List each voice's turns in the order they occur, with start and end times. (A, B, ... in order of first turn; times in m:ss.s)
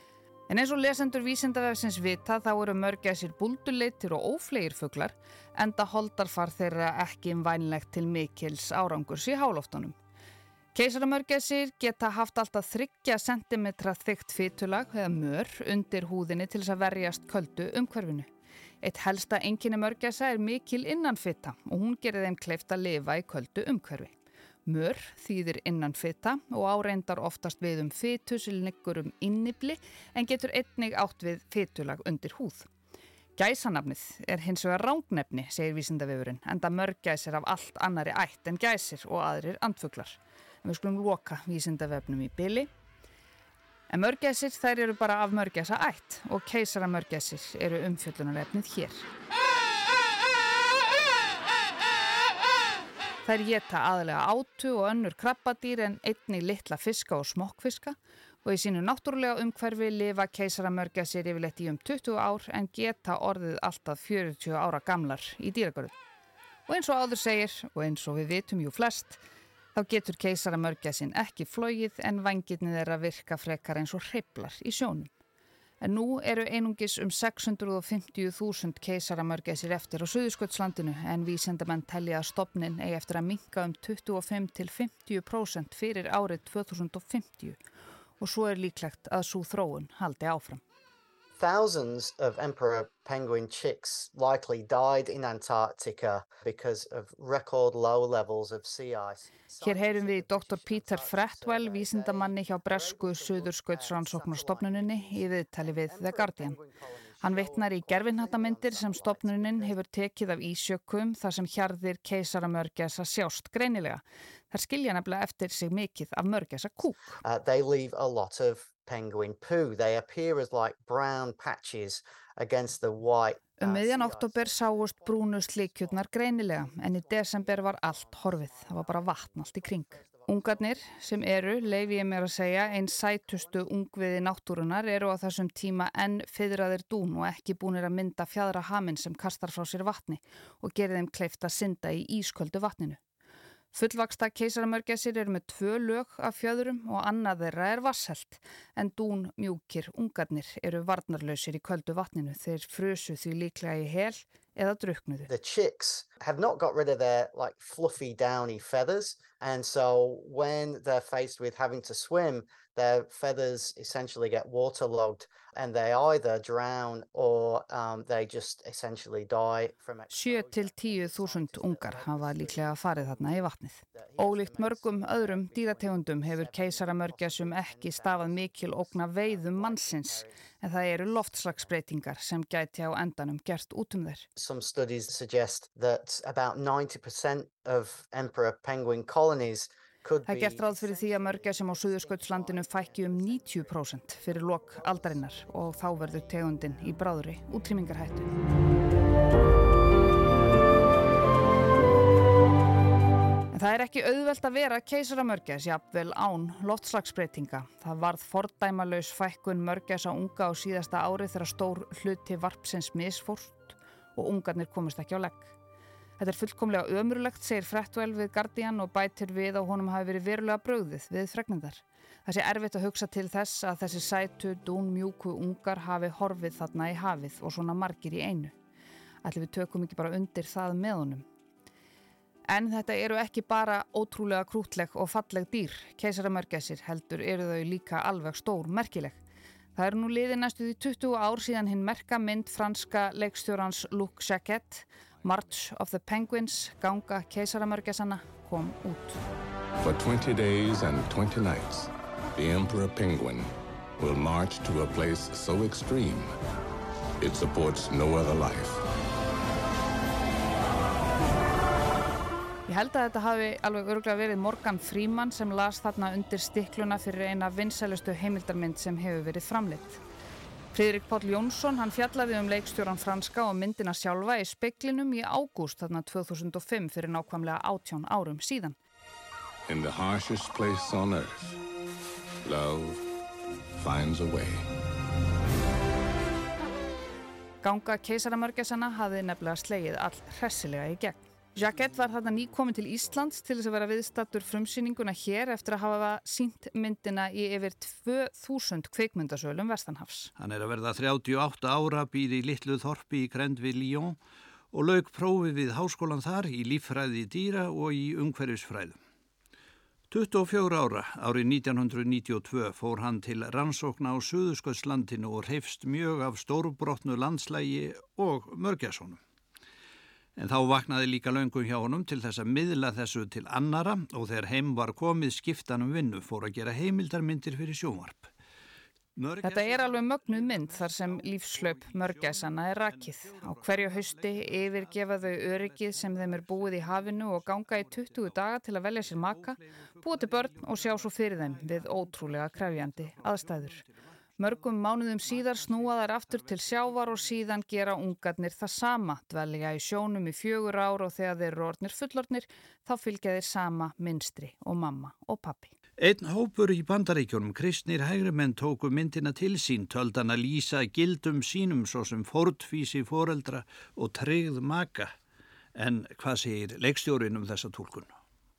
0:00.5-0:10.0 A
0:10.7-0:18.3 A
0:18.8-0:24.2 A
0:24.7-0:32.7 A
0:33.4-0:42.7 A
0:43.9-0:49.1 A
0:53.2-1:06.0 A
1:06.7-1:09.2 A
1:09.8-1:15.1 A
1:15.8-1:27.6 A
1:28.2-1:30.6 A
1:31.4-1:49.8 B
1:39.6-1:46.6 A
1:47.2-1:57.2 A
1:57.2-2:13.7 B
2:03.6-2:23.0 A
2:23.7-2:35.3 A
2:35.3-3:01.7 B
2:50.1-3:04.3 A
3:04.4-3:17.0 B
3:10.3-3:18.3 A
3:23.5-3:35.5 A
3:36.2-3:48.5 A
3:49.2-3:51.2 A
3:52.5-3:59.2 A
3:59.8-4:09.2 A
4:09.8-4:16.3 C
4:17.2-4:18.8 C
4:22.7-4:30.0 A
4:30.7-4:38.8 A
4:39.7-4:41.6 C
4:42.4-4:43.0 C
4:43.7-4:44.7 C
4:47.6-5:00.3 A
5:00.4-5:04.2 D
5:04.7-5:09.0 D
5:10.1-5:19.2 D
5:20.4-5:28.3 D
5:29.2-5:38.4 D
5:29.4-5:43.8 A
5:39.0-5:43.9 D
5:44.4-5:55.7 A
5:45.3-5:47.2 D
5:56.0-6:05.1 D
6:05.8-6:08.1 D